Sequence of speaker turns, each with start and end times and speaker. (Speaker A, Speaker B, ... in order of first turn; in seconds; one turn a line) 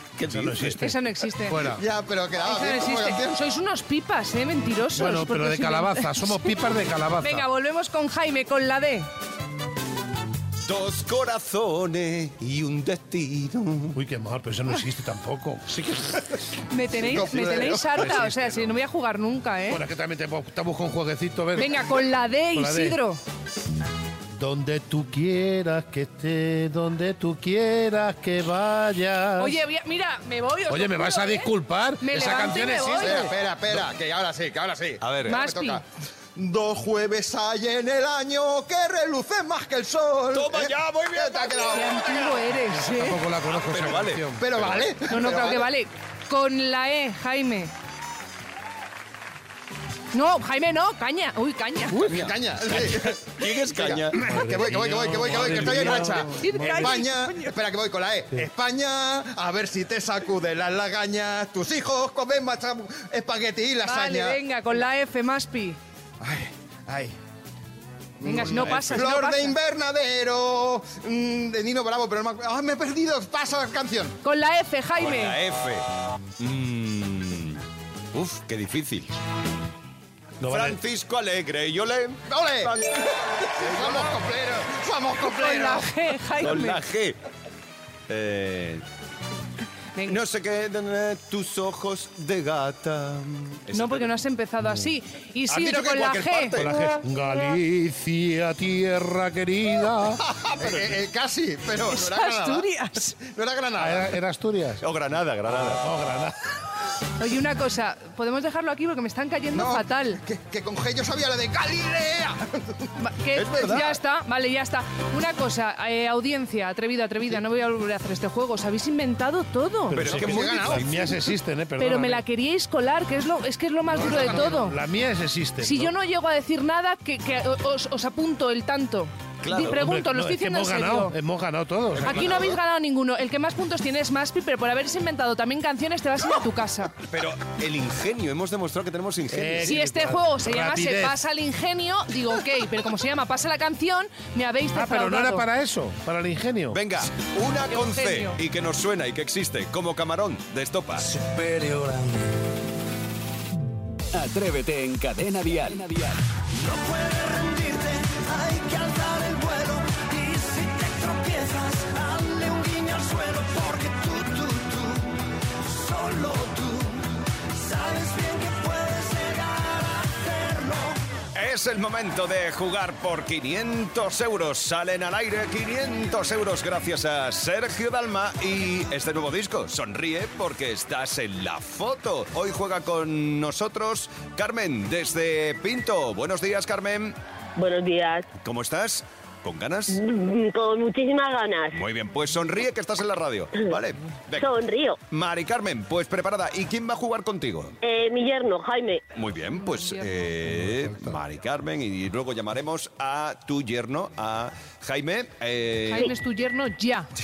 Speaker A: 0.2-0.8
Speaker B: 0.2-1.8
Speaker C: 0.8-1.7
Speaker D: 1.7-3.4
Speaker C: 2.4-6.5
Speaker B: 5.0-7.5
Speaker C: 7.2-9.1
Speaker A: 10.7-14.0
Speaker B: 13.9-16.2
Speaker C: 16.7-19.8
Speaker D: 17.0-18.2
Speaker B: 17.9-18.5
Speaker B: 19.7-23.0
Speaker C: 21.6-23.2
Speaker B: 24.4-29.6
Speaker C: 29.4-31.5
Speaker B: 30.7-33.3
Speaker C: 32.0-33.3
Speaker D: 33.0-35.8
Speaker A: 35.0-35.4
Speaker C: 35.3-35.8
Speaker D: 36.4-42.4
Speaker A: 40.3-42.1
Speaker C: 41.6-43.2
Speaker B: 42.6-44.5
Speaker A: 43.5-44.9
Speaker D: 44.4-45.7
Speaker C: 45.1-47.7
Speaker C: 50.1-52.0
Speaker D: 52.0-64.4
Speaker A: 52.1-54.2
Speaker B: 54.1-57.1
Speaker A: 55.3-55.9
Speaker C: 56.3-57.5
Speaker C: 63.8-65.8
Speaker D: 66.2-67.1
Speaker D: 68.2-74.2
Speaker C: 68.2-69.6
Speaker A: 68.5-69.1
Speaker C: 74.2-75.4
Speaker A: 75.0-75.9
Speaker A: 76.4-77.6
Speaker A: 78.1-79.1
Speaker B: 80.4-80.8
Speaker A: 80.4-82.9
Speaker D: 82.3-85.9
Speaker A: 83.6-84.2
Speaker C: 85.3-86.8
Speaker A: 86.4-87.2
Speaker A: 88.1-88.8
Speaker A: 90.1-94.1
Speaker C: 93.7-96.6
Speaker A: 95.5-96.9
Speaker B: 96.6-100.2
Speaker D: 100.2-102.7
Speaker A: 100.6-100.9
Speaker C: 101.9-103.2
Speaker D: 103.2-104.1
Speaker B: 103.8-104.8
Speaker A: 104.8-105.8
Speaker B: 105.6-106.5
Speaker C: 107.2-110.2
Speaker D: 109.5-112.9
Speaker C: 113.0-120.0
Speaker A: 113.3-114.0
Speaker B: 119.9-122.2
Speaker A: 119.9-121.1
Speaker D: 120.0-121.2
Speaker C: 121.8-124.8
Speaker B: 123.9-125.9
Speaker C: 125.6-131.2
Speaker A: 129.4-129.8
Speaker B: 129.6-132.4
Speaker A: 132.0-132.6
Speaker C: 132.0-136.9
Speaker A: 137.0-139.8
Speaker B: 139.3-141.2
Speaker C: 139.7-145.5
Speaker B: 144.7-146.8
Speaker A: 146.7-151.2
Speaker C: 147.7-148.4
Speaker E: 154.1-156.2
Speaker A: 171.3-187.2
Speaker F: 187.6-188.3
Speaker A: 188.4-190.0
Speaker F: 189.9-191.8
Speaker A: 191.7-194.5
Speaker F: 194.4-195.0
Speaker A: 195.1-197.8
Speaker F: 197.8-199.1
Speaker A: 199.1-206.1
Speaker C: 199.6-200.1
Speaker B: 200.4-201.2
Speaker C: 205.9-207.1